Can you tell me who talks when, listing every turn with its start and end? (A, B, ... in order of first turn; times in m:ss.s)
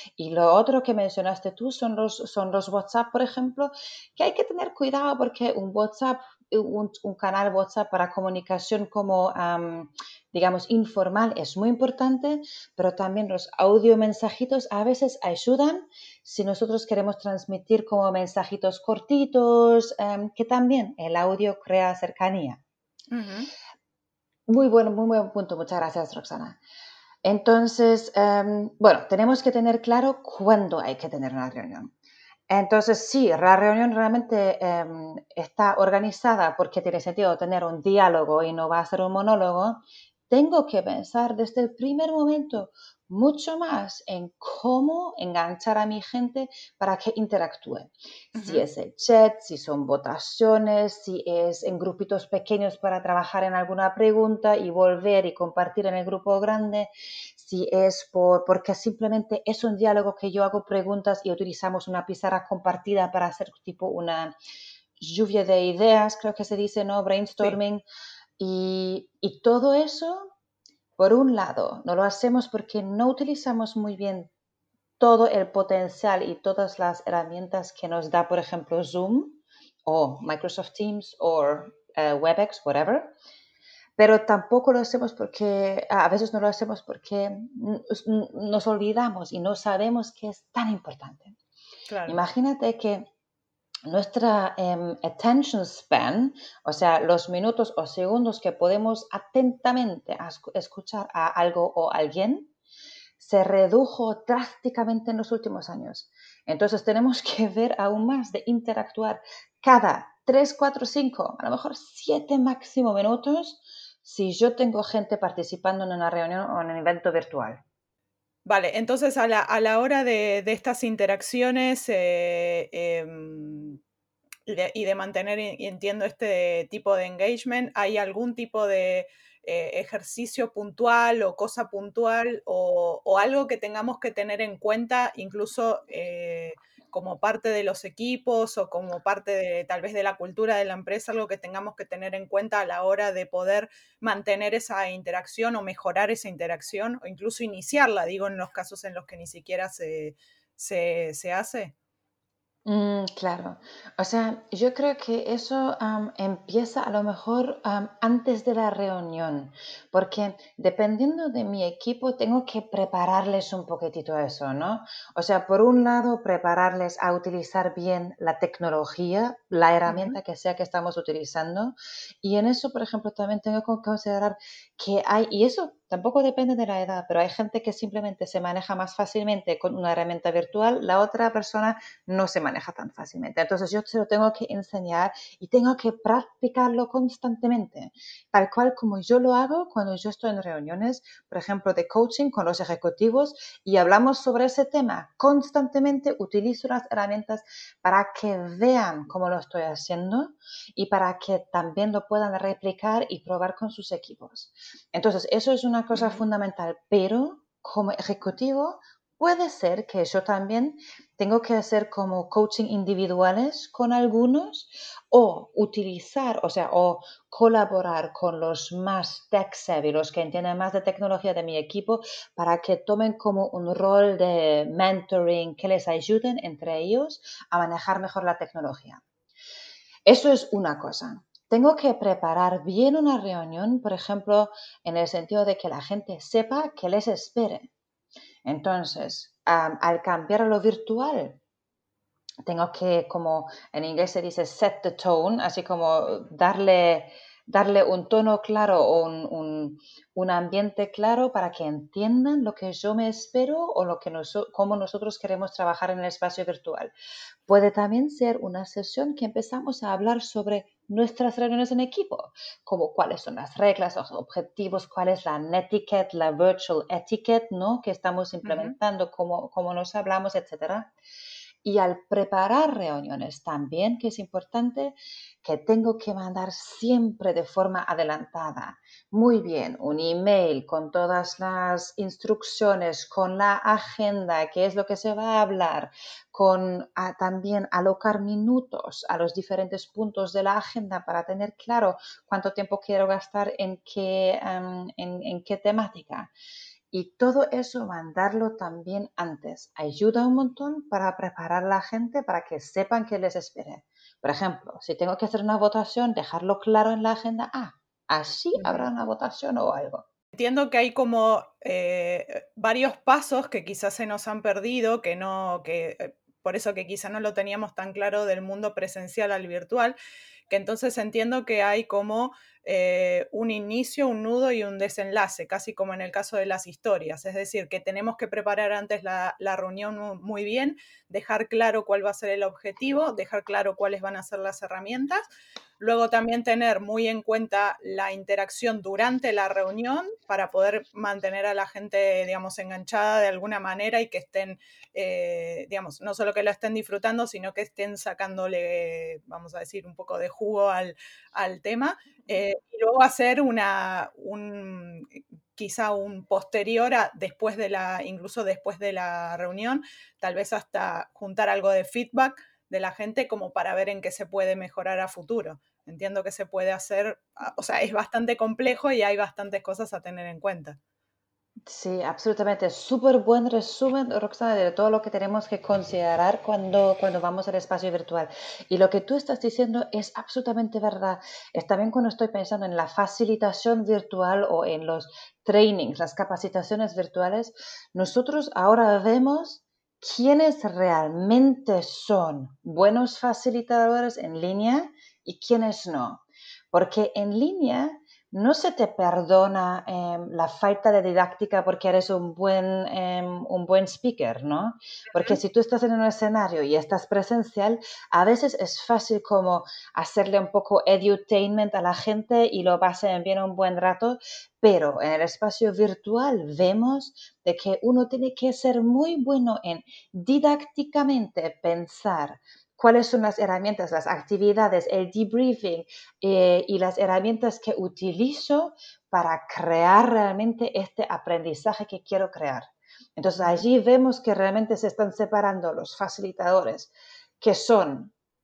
0:00.2-0:22.6 A
0:23.1-0:23.5 B
0:24.5-0:26.6 A
0:27.2-0:31.9 A
0:32.5-1:04.4 A
0:48.3-0:48.6 B
1:05.0-1:07.8 A
1:08.4-1:10.3 A
1:11.0-1:14.3 A
1:15.0-1:23.1 A
1:24.0-1:31.4 A
1:31.9-1:32.2 B
1:32.1-1:33.1 A
1:33.9-1:42.5 A
1:43.2-1:57.6 A
1:58.4-2:03.8 B
2:04.5-2:31.7 B
2:32.6-3:49.0 A
2:49.9-2:50.2 B
3:25.9-3:26.2 B
3:50.1-3:57.7 A
3:58.4-4:01.4 A
4:02.4-4:16.9 A
4:17.5-4:30.9 A
4:28.4-4:28.8 B
4:31.6-4:56.3 A
4:56.9-5:10.0 A
5:08.5-5:08.9 B
5:10.3-5:20.0 B
5:20.5-5:35.3 B
5:35.8-6:10.8 B
6:11.6-7:18.1 A
6:45.1-6:45.4 B